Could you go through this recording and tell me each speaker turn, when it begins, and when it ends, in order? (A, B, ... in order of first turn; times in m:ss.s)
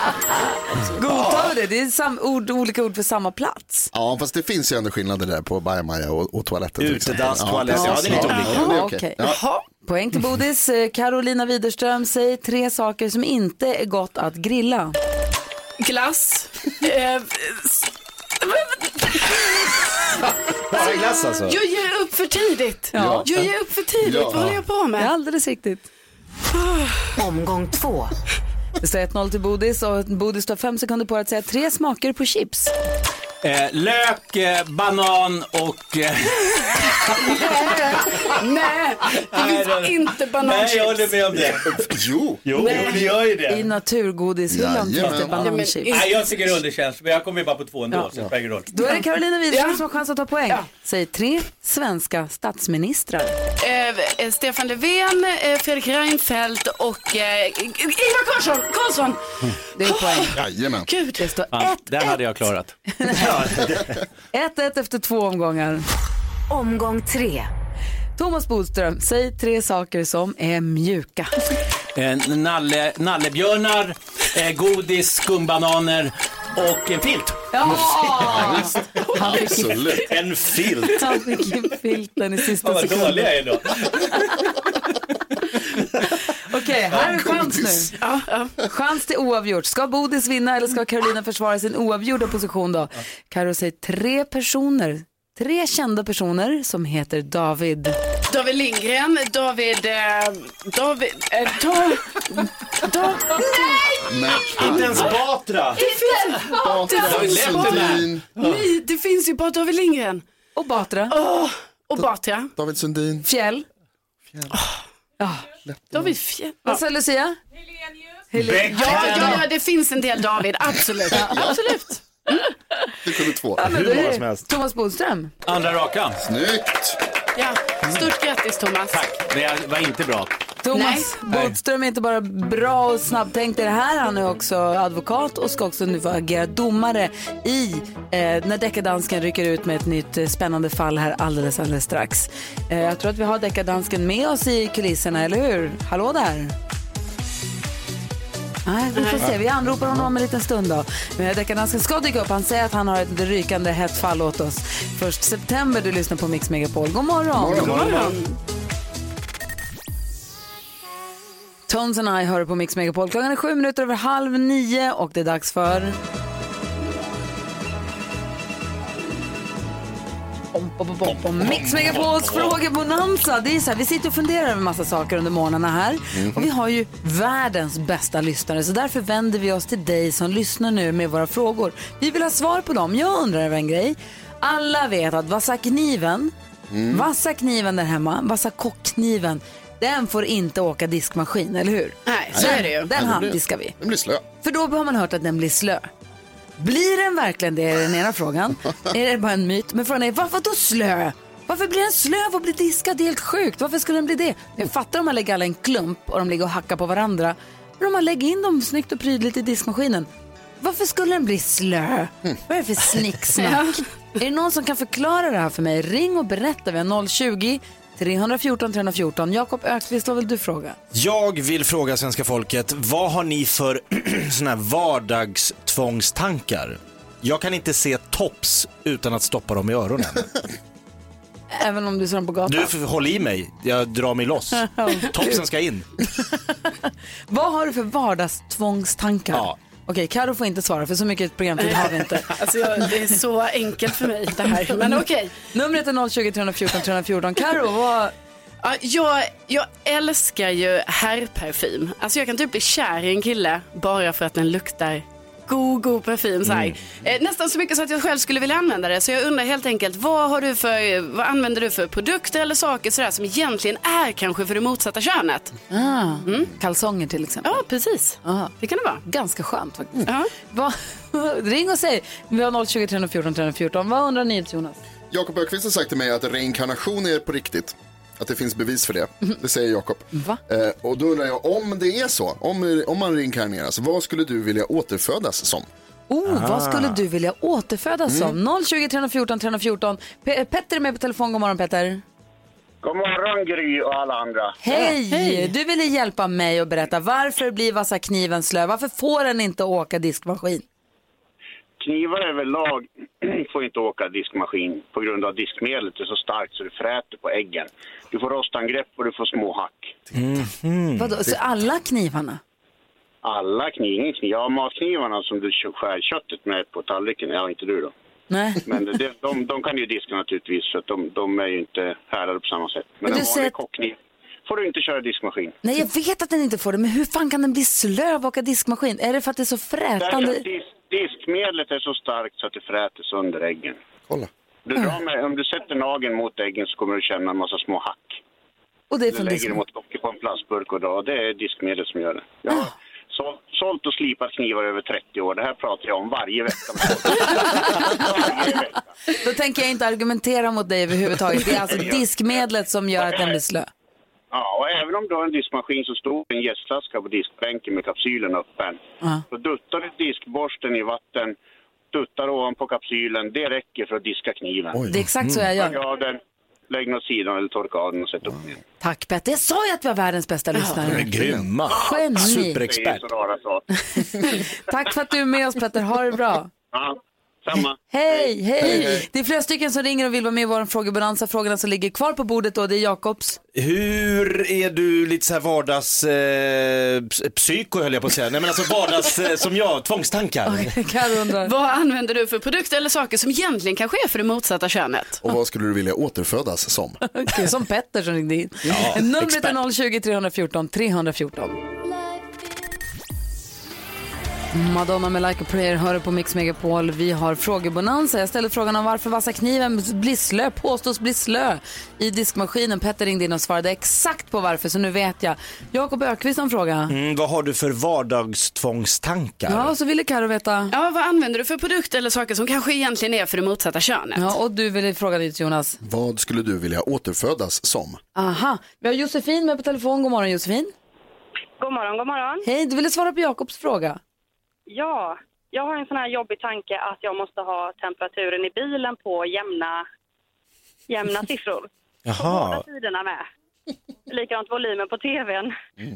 0:00.9-0:03.9 A
0:01.1-0:01.4 B
0:03.9-0:09.4 C
0:06.8-0:08.7 B
0:07.7-0:09.2 A
0:08.2-0:09.6 D
0:09.8-0:15.0 A
0:15.8-0:17.9 D
0:18.4-0:19.9 D
0:20.7-0:21.6 B
0:20.7-0:25.1 D
0:22.9-0:23.3 A
0:22.9-0:23.3 C
0:24.0-0:24.6 C
0:25.0-0:25.8 A
0:26.7-0:27.1 D
0:28.8-0:32.7 A
0:33.4-0:38.2 E
0:37.2-0:41.2 D
0:39.2-0:41.7 E
0:41.6-0:42.4 C
0:42.4-0:43.7 E
0:42.6-0:43.1 D
0:43.5-0:46.0 A
0:44.5-0:45.4 C
0:45.3-0:46.3 D
0:45.9-0:48.7 E
0:48.7-0:53.4 A
0:49.5-0:49.8 D
0:53.6-0:59.2 D
0:59.8-1:00.4 A
0:59.8-1:01.3 D
1:00.4-1:00.9 C
1:01.2-1:02.2 A
1:01.5-1:02.8 E
1:03.0-1:03.5 A
1:03.1-1:04.0 B
1:04.3-1:05.8 A
1:08.2-1:11.3 A
1:12.0-1:17.8 E
1:17.5-1:19.8 A
1:18.3-1:20.1 C
1:19.1-1:19.5 D
1:20.0-1:21.0 B
1:21.0-1:23.4 A
1:22.6-1:23.9 E
1:26.4-1:27.9 A
1:28.0-1:28.5 D
1:28.6-1:38.0 A
1:38.3-1:44.0 D
1:44.1-1:45.1 C
1:44.6-1:45.8 B
1:45.7-1:50.2 D
1:46.6-1:48.2 C
1:47.0-1:48.6 E
1:50.6-1:51.2 A
1:51.1-1:52.5 D
1:52.6-1:53.3 C
1:53.2-1:53.6 A
1:54.5-1:54.8 D
1:55.2-1:55.5 A
1:55.7-1:56.1 C
1:55.9-1:56.8 D
1:56.6-1:57.4 A
1:58.3-1:59.4 A
1:58.4-1:59.5 E
1:58.7-2:02.4 D
2:01.1-2:01.4 A
2:01.3-2:01.6 C
2:03.0-2:03.7 C
2:03.6-2:05.3 A
2:03.6-2:04.5 B
2:05.4-2:06.2 E
2:06.2-2:07.0 C
2:07.4-2:09.0 D
2:08.9-2:10.3 E
2:10.6-2:26.5 A
2:10.7-2:11.1 D
2:11.3-2:11.5 E
2:28.6-2:37.8 A
2:28.9-2:29.3 D
2:37.4-2:38.0 C
2:37.6-2:38.4 D
2:37.6-2:38.1 B
2:41.7-2:46.0 A
2:50.5-3:06.3 A
2:56.1-2:56.5 C
3:06.7-3:07.1 C
3:06.9-3:13.8 A
3:12.0-3:12.9 D
3:12.3-3:14.2 C
3:14.4-3:15.9 A
3:16.6-3:30.1 A
3:30.6-3:40.8 A
3:33.4-3:33.8 D
3:40.9-3:50.4 B
3:51.5-3:52.7 A
3:52.5-3:55.9 B
3:54.6-3:55.4 A
3:57.3-4:02.3 A
4:01.6-4:05.3 D
4:05.5-4:08.1 A
4:08.6-4:25.5 D
4:16.5-4:16.7 B
4:25.7-4:27.6 A
4:26.2-4:26.5 D
4:27.4-4:29.0 D
4:28.2-4:34.8 A
4:30.0-4:30.3 D
4:35.1-4:45.7 C
4:40.1-4:40.4 A
4:46.1-4:52.0 A
4:46.2-4:47.0 B
4:48.1-4:48.4 C
4:52.8-4:54.6 F
4:54.6-5:00.6 A
4:54.8-4:55.5 D
5:01.8-5:10.0 F
5:10.1-5:11.3 B
5:11.0-5:12.4 A
5:13.2-5:17.9 F
5:18.3-5:18.6 A
5:18.6-5:25.6 F
5:23.0-5:23.5 A
5:25.6-5:30.4 A
5:30.0-5:33.8 F
5:34.7-5:38.2 F
5:38.9-5:39.6 A
5:39.1-5:48.8 F
5:47.5-5:48.1 A
5:49.2-5:53.7 A
5:51.7-5:52.0 F
5:53.1-5:53.3 F
5:54.3-5:58.8 F
5:59.3-6:01.4 F
6:01.9-6:04.8 F
6:04.7-6:05.0 C
6:04.9-6:05.8 A
6:05.2-6:05.5 B
6:05.6-6:08.6 F
6:08.8-6:11.1 A
6:10.8-6:13.1 B
6:11.1-6:11.5 C
6:11.7-6:12.6 A
6:11.7-6:13.7 F
6:14.0-6:16.5 A
6:16.7-6:18.3 F
6:17.9-6:23.4 A
6:18.6-6:19.0 C
6:23.5-6:30.7 B
6:30.4-6:31.5 A
6:31.4-6:35.2 D
6:35.2-6:37.0 C
6:37.1-6:41.6 A
6:38.7-6:39.6 B
6:44.5-6:56.9 A
6:56.9-6:59.7 B
6:59.5-7:00.7 A
7:00.7-7:04.3 D
7:04.1-7:05.8 A
7:05.8-7:08.0 C
7:08.1-7:10.7 A
7:11.6-7:12.4 G
7:12.4-7:14.0 A
7:14.7-7:19.8 G
7:20.9-7:23.2 G
7:22.0-7:22.6 B
7:24.1-7:25.5 G